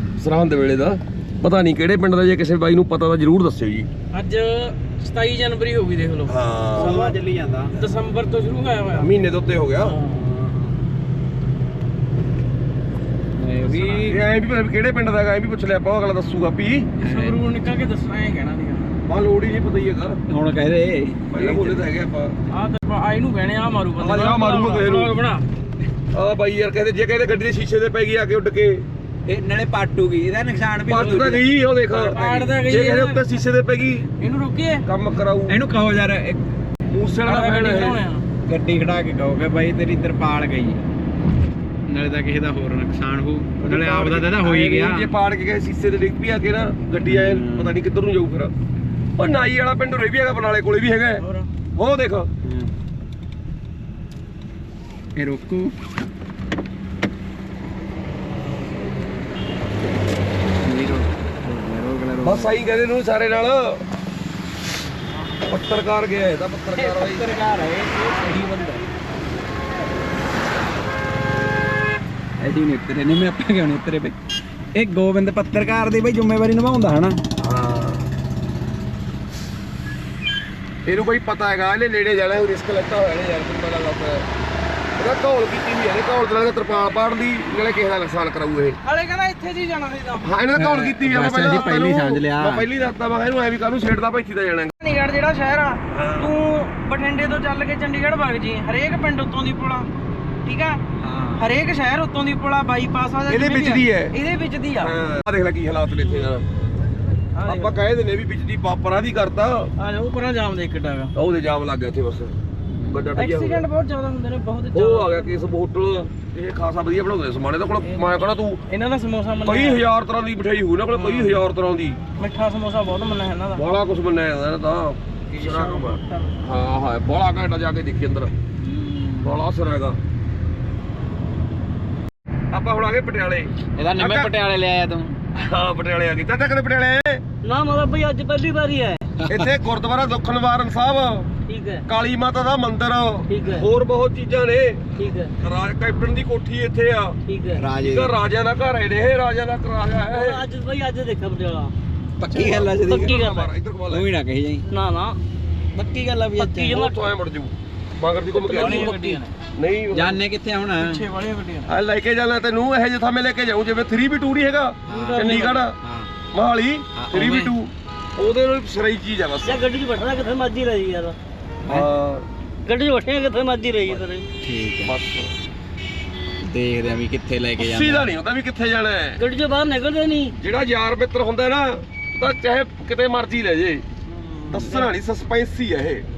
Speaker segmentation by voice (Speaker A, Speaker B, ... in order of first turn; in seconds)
Speaker A: 0.2-3.9, 6.3-7.0, 9.0-9.9, 14.0-16.9, 19.1-20.2, 21.3-22.4, 24.0-25.1, 26.1-28.8, 30.9-34.1, 34.8-35.6, 36.9-38.0, 43.6-48.5, 49.2-51.2, 51.8-52.3, 62.2-63.8, 65.5-67.4, 77.4-78.1, 80.9-84.3, 85.0-88.8, 90.2-94.7, 95.9-96.3, 103.3-104.2, 104.8-106.5, 107.5-109.7, 111.2-112.3, 112.9-113.6, 114.7-118.6, 119.5-122.0, 123.5-128.3, 129.2-130.0, 132.5-134.3, 135.3-137.2, 139.3-147.2, 147.8-150.4, 152.8-154.1, 156.8-158.9, 159.6-160.2, 161.7-165.8, 166.3-169.7, 171.7-172.3, 174.8-175.3, 177.6-179.2, 180.3-183.8, 184.5-186.1
Speaker B: 4.1-7.2, 7.7-9.1, 9.8-10.2, 13.7-14.0, 17.0-18.9, 22.5-25.4, 31.9-33.2, 34.2-34.8, 37.2-38.2, 51.2-51.5, 88.8-90.3, 94.8-99.9, 100.4-100.8, 101.4-104.9, 107.3-107.8, 109.8-111.1, 113.2-115.4, 118.7-119.8, 120.9-121.4, 122.2-123.6, 152.3-152.6, 158.4-159.3, 160.8-161.8, 164.9-165.6
Speaker C: 6.8-7.8, 10.1-10.8, 13.4-14.2, 17.0-17.4, 20.3-21.9, 29.3-31.4, 35.5-36.4, 38.5-40.8, 41.9-45.1, 47.1-47.8, 52.5-52.7, 55.2-55.7, 60.6-62.5, 66.7-68.8, 72.4-74.2, 74.7-77.2, 90.6-92.7, 101.0-101.4, 112.7-113.1, 125.4-125.8, 128.6-129.4, 133.8-135.2, 147.6-148.1, 152.2-153.2, 153.9-154.7, 155.7-156.8, 158.6-159.2, 159.9-161.0, 164.9-166.1, 167.0-167.5, 174.4-174.9, 176.4-178.1, 184.2-184.8
Speaker D: 137.4-139.1, 141.5-141.8, 143.3-143.7, 145.0-145.3, 147.3-147.7, 149.9-151.7, 152.3-153.5, 154.7-155.2, 156.4-157.0, 164.9-165.4, 169.4-171.2, 172.7-174.3, 179.2-180.3